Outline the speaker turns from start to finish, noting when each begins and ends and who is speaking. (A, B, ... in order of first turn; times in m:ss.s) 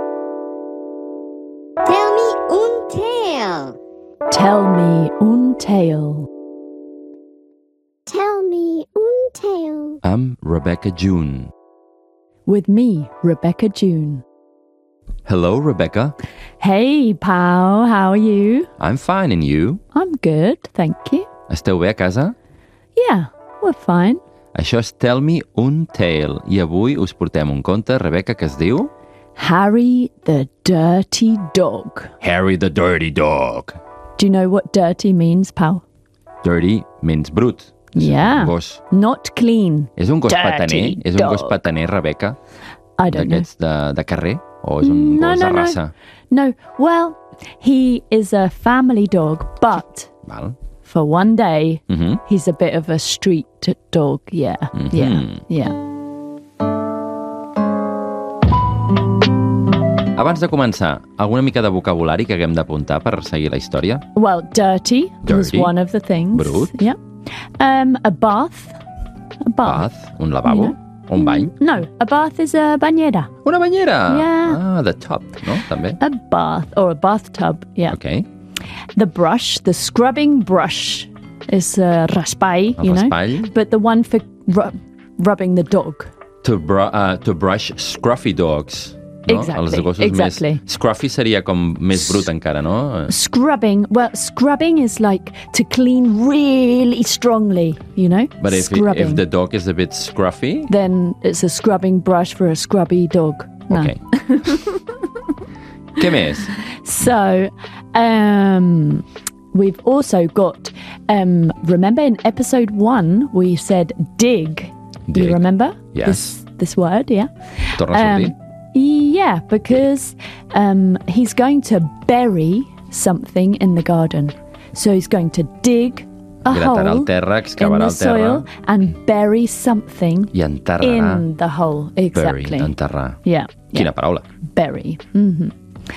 0:01.8-0:03.8 A
0:04.3-0:06.3 B
0:08.1-0:10.0 A
0:10.0-0:11.5 C
0:12.5-0:14.2 B
0:15.3-0:16.2 C
0:16.6-0:18.7 B
0:18.8-0:19.8 C
0:19.9-0:21.3 B
0:21.5-0:22.4 C
0:23.0-0:24.2 B
0:24.6-0:28.9 C
0:29.4-0:32.1 B
0:32.2-0:33.8 C
0:34.2-0:35.8 B
0:36.4-0:38.8 C
0:38.0-0:41.6 B
0:40.0-0:42.4 C
0:43.0-0:43.5 B
0:43.1-0:45.9 C
0:44.8-0:50.1 B
0:50.3-0:50.6 C
0:50.8-0:55.8 B
0:51.9-0:52.2 C
0:54.8-0:55.4 C
1:00.2-1:04.0 C
1:04.2-1:07.0 B
1:05.2-1:05.7 C
1:06.3-1:06.8 C
1:07.6-1:08.8 B
1:09.5-1:09.9 B
1:09.6-1:11.5 C
1:10.4-1:13.3 B
1:13.4-1:16.0 C
1:14.1-1:14.6 B
1:16.0-1:18.0 B
1:17.9-1:18.3 C
1:19.0-1:26.1 B
1:22.8-1:23.5 C
1:26.4-1:33.1 C
1:29.3-1:30.6 B
1:33.1-1:39.2 B
1:38.4-1:40.7 C
1:40.7-1:44.8 B
1:43.7-1:44.0 C
1:46.0-1:46.5 C
1:46.7-2:12.7 B
1:55.1-1:56.4 C
1:57.7-1:58.4 C
2:06.5-2:08.5 C
2:10.3-2:11.3 C
2:12.2-2:13.2 C
2:13.2-2:13.9 B
2:13.7-2:14.3 C
2:14.4-2:15.6 B